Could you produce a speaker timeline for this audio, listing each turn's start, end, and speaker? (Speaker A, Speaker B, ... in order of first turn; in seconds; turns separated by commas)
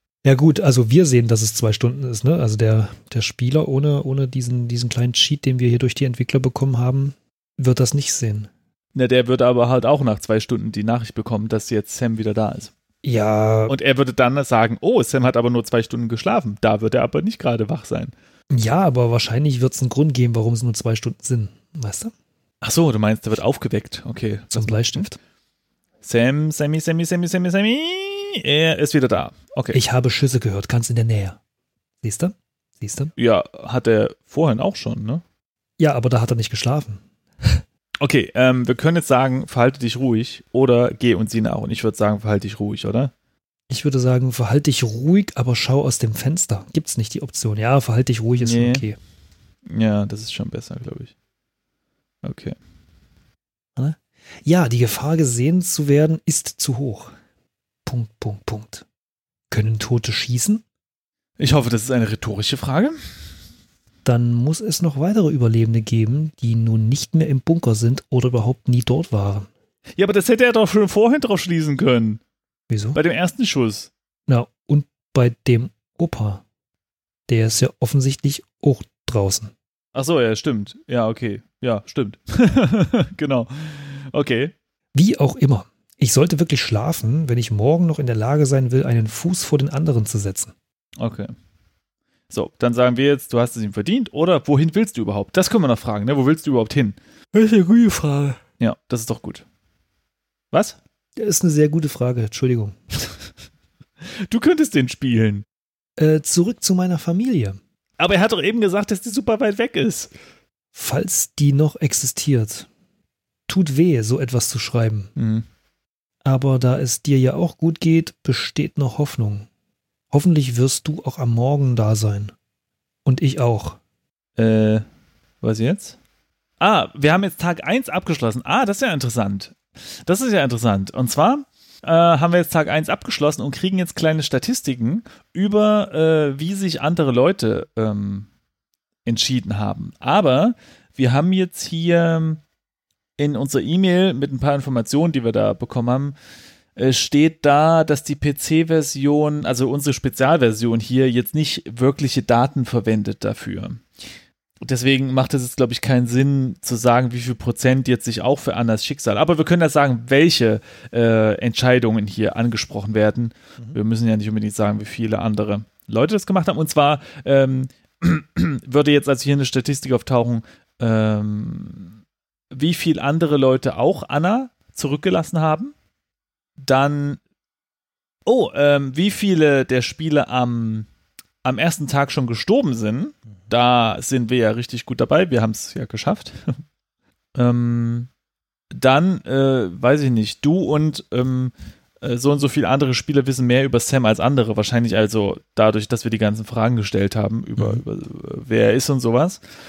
Speaker A: 0.2-8.5, Speaker B: 8.9-12.7, Speaker A: 13.0-13.7, Speaker B: 13.7-18.1, Speaker A: 18.5-22.1, Speaker B: 22.6-25.1, Speaker A: 24.5-25.2, Speaker B: 26.0-29.8, Speaker A: 29.7-31.4, Speaker A: 32.0-33.1, Speaker B: 33.2-35.2, Speaker A: 35.8-37.6, Speaker B: 38.0-43.1, Speaker A: 43.7-49.0, Speaker B: 48.4-48.9, Speaker B: 49.6-51.1, Speaker B: 52.2-52.5, Speaker A: 53.8-57.1, Speaker A: 57.8-58.8, Speaker A: 59.5-60.6, Speaker B: 61.4-63.0, Speaker A: 64.0-69.5, Speaker B: 70.0-72.2, Speaker A: 72.7-73.0, Speaker B: 72.9-73.9, Speaker A: 74.3-76.4, Speaker A: 77.3-79.5, Speaker B: 79.9-84.5, Speaker A: 84.9-90.5, Speaker B: 91.0-91.3, Speaker B: 92.3-97.0, Speaker A: 97.3-98.4, Speaker B: 98.6-99.4, Speaker B: 100.5-100.8, Speaker A: 101.2-102.8, Speaker B: 104.2-105.4, Speaker A: 106.0-107.6, Speaker B: 108.0-110.1, Speaker A: 110.7-112.7, Speaker A: 113.5-115.1, Speaker B: 115.2-115.4, Speaker A: 116.2-119.5, Speaker A: 120.1-122.3, Speaker A: 123.0-123.8, Speaker B: 124.4-124.8, Speaker B: 125.4-126.0, Speaker B: 126.6-138.3, Speaker B: 139.0-142.4, Speaker B: 143.2-146.2, Speaker B: 146.8-153.8, Speaker B: 154.6-171.9, Speaker B: 172.5-175.7, Speaker B: 176.6-177.2, Speaker B: 178.2-180.9, Speaker B: 181.4-186.4, Speaker B: 187.3-188.1, Speaker B: 188.7-199.4, Speaker A: 197.6-197.8